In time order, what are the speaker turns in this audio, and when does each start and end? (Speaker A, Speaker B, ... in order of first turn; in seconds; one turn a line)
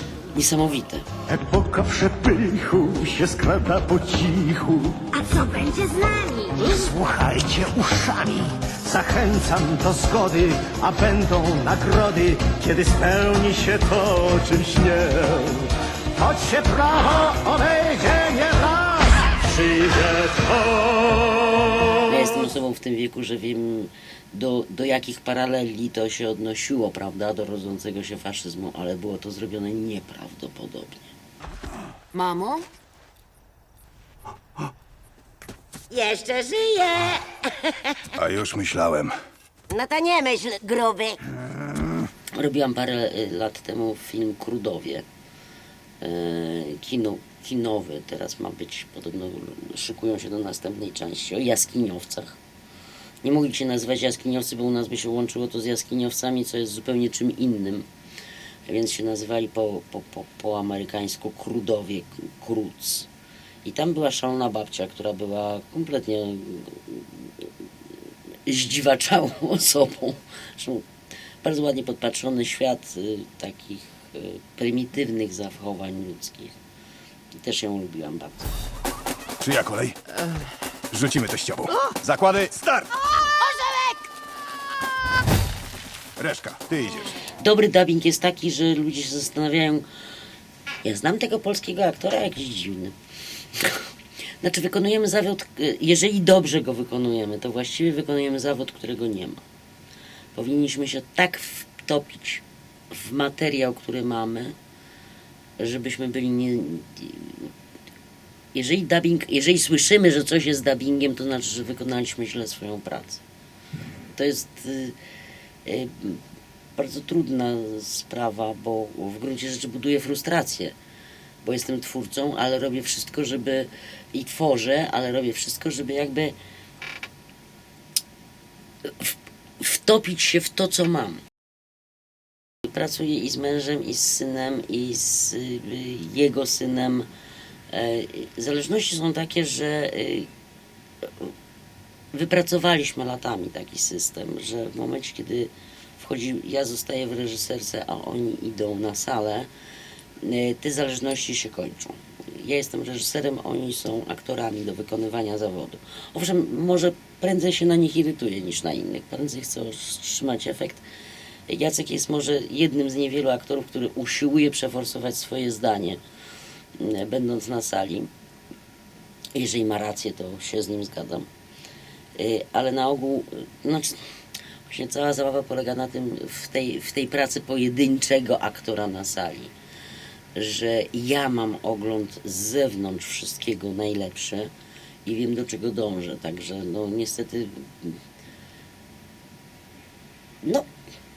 Speaker A: 0.3-1.0
Speaker B: 1.3-5.0
Speaker C: 5.1-6.8
Speaker B: 6.6-21.9
Speaker A: 22.1-31.1
Speaker C: 32.1-32.6
Speaker C: 35.9-37.5
Speaker D: 38.2-39.1
Speaker C: 39.7-41.2
Speaker A: 42.4-45.0
Speaker A: 46.0-52.4
Speaker A: 53.2-57.8
Speaker A: 58.7-63.1
Speaker A: 63.6-67.3
Speaker A: 68.5-70.8
Speaker A: 71.4-76.5
Speaker A: 77.4-78.5
Speaker D: 79.4-80.0
Speaker D: 80.9-82.8
Speaker D: 86.2-87.0
Speaker A: 87.4-89.8
Speaker A: 90.8-92.9
Speaker A: 93.5-93.9
Speaker A: 94.4-99.4
Speaker A: 100.3-104.5
Speaker A: 105.6-107.5
Speaker A: 108.5-113.2
Speaker A: 114.1-115.0
Speaker A: 115.7-116.2
Speaker A: 116.8-120.7
Speaker A: 121.4-126.3
Speaker A: 128.8-131.2
Speaker A: 132.6-137.1
Speaker A: 137.7-140.3
Speaker A: 142.1-149.5
Speaker A: 150.2-160.8
Speaker A: 161.5-166.0
Speaker A: 166.8-168.1
Speaker A: 169.3-171.3
Speaker A: 172.2-174.0
Speaker A: 174.7-179.5
Speaker A: 180.3-184.5
Speaker A: 185.0-188.0